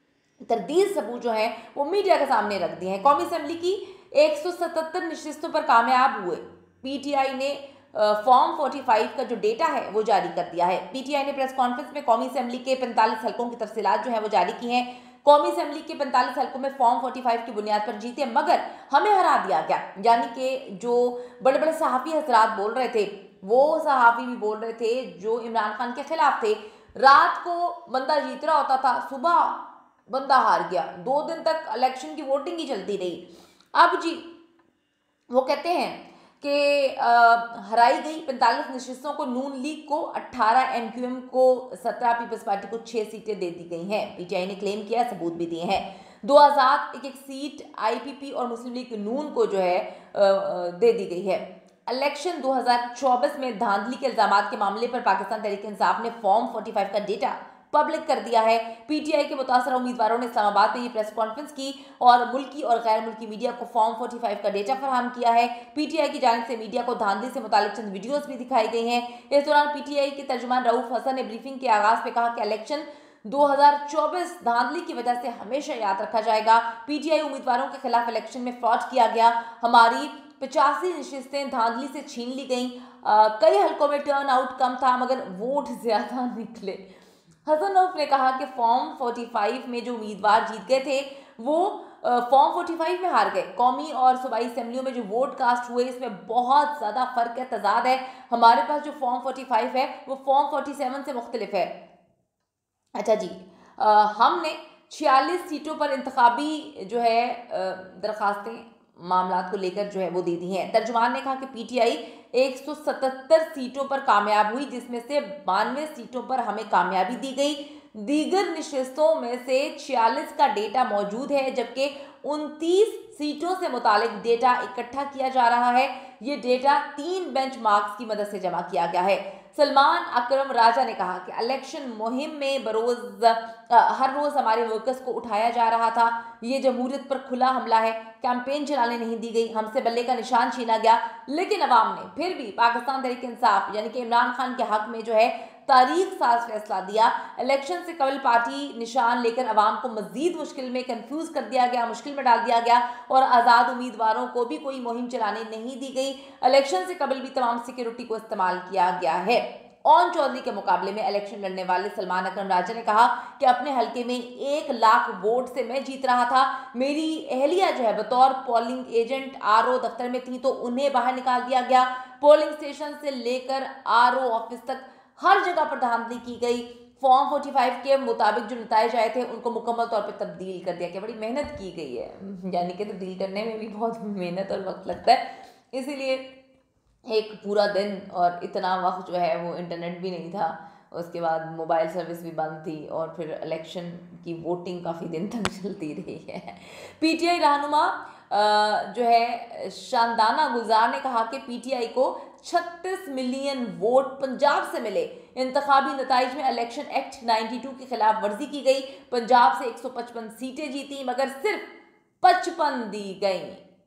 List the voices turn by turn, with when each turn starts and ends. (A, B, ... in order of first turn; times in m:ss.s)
0:00.4-0:34.3 A
0:35.3-1:26.8 A
1:27.4-1:41.7 A
1:43.0-3:06.2 A
3:07.1-3:31.7 A
3:32.2-3:33.6 A